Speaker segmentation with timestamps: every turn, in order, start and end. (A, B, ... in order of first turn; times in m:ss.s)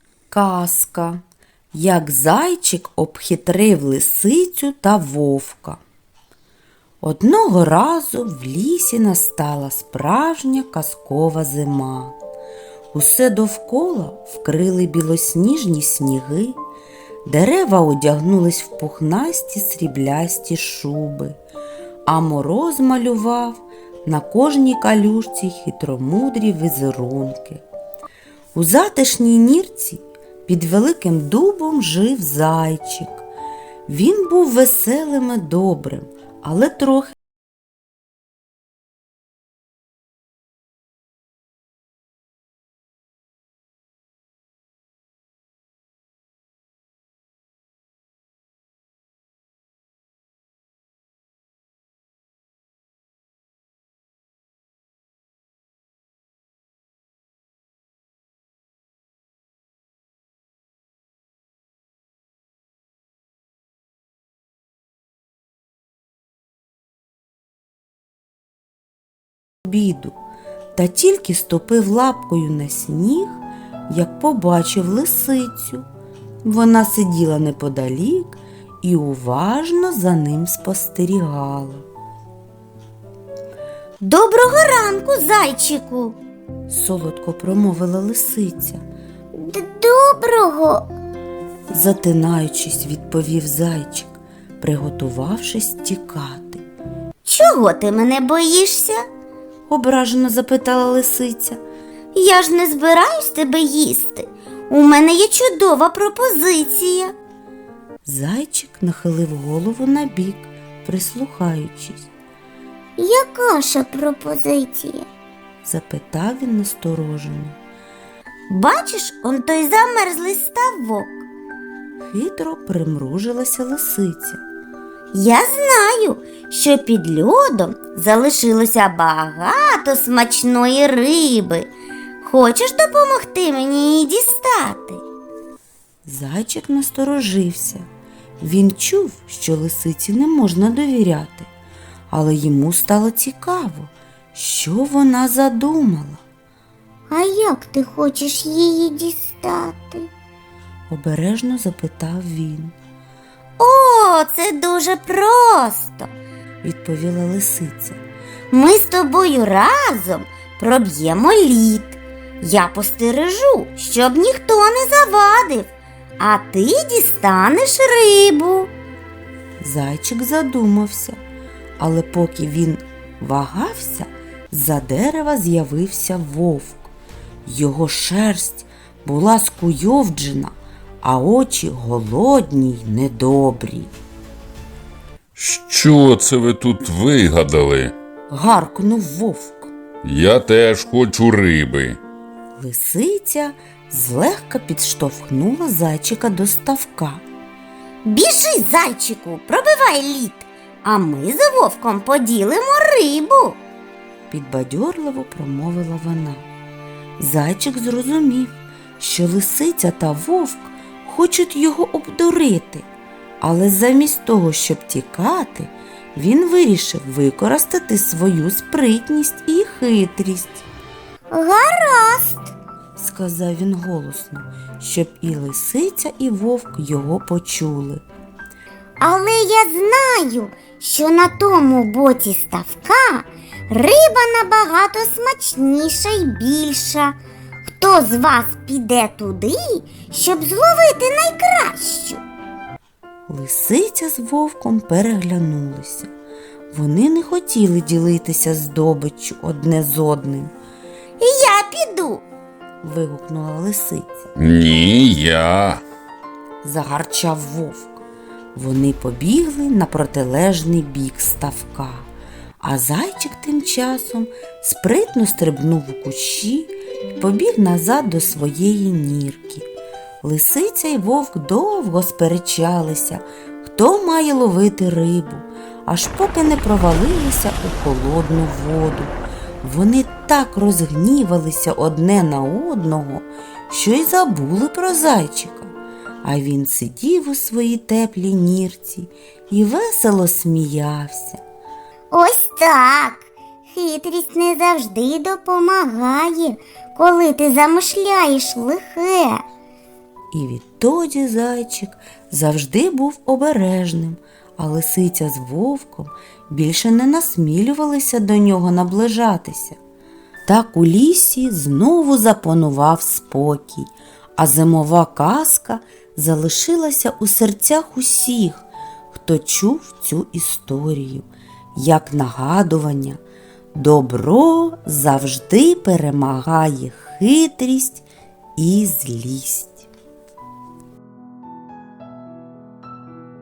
0:00.3-0:01.2 A
0:01.7-0:05.8 A
0:07.0-0:12.2 A
0:12.9-0:16.6 A
0:17.2-0:21.4 A
0:22.1-0:27.6 A
0:28.6-0:33.2 A
0:33.9-0:37.2 A
1:09.6-1:10.2 A
1:10.8-1:15.8 A
1:16.4-1:21.9 A
1:24.0-1:26.2 B
1:26.7-1:28.8 A
1:29.3-1:30.9 B
1:31.7-1:36.6 A
1:37.2-1:39.0 B
1:39.7-1:41.6 A
1:42.1-1:47.1 B
1:48.0-1:52.1 A
1:53.0-1:55.1 B
1:55.6-1:57.6 A
1:58.5-2:01.3 B
2:02.0-2:04.4 A
2:05.1-2:11.7 B
2:12.2-2:15.0 B
2:16.0-2:17.9 A
2:18.4-2:21.5 A
2:22.1-2:26.2 A
2:27.1-2:30.1 B
2:30.9-2:32.7 A
2:33.6-2:36.1 B
2:36.6-2:38.0 A
2:38.5-2:48.7 B
2:49.6-2:51.2 A
2:51.8-2:56.9 A
2:57.5-3:03.9 A
3:05.4-3:07.9 C
3:08.3-3:09.7 A
3:10.0-3:12.0 C
3:12.6-3:17.2 A
3:18.0-3:23.6 B
3:24.3-3:26.5 A
3:27.2-3:32.8 A
3:33.4-3:40.6 A
3:41.3-3:42.5 B
3:43.0-3:48.0 A
3:49.0-4:02.2 B
4:03.3-4:06.1 A
4:06.7-4:10.5 A
4:11.2-4:12.2 B
4:12.8-4:14.3 A
4:14.4-4:15.8 C
4:16.6-4:18.0 A
4:18.6-4:22.1 A
4:22.6-4:29.7 A
4:30.2-4:51.4 A
4:52.1-4:59.4 B
5:00.3-5:09.8 A
5:10.5-5:23.2 A
5:23.8-5:28.0 A
5:28.6-5:29.9 A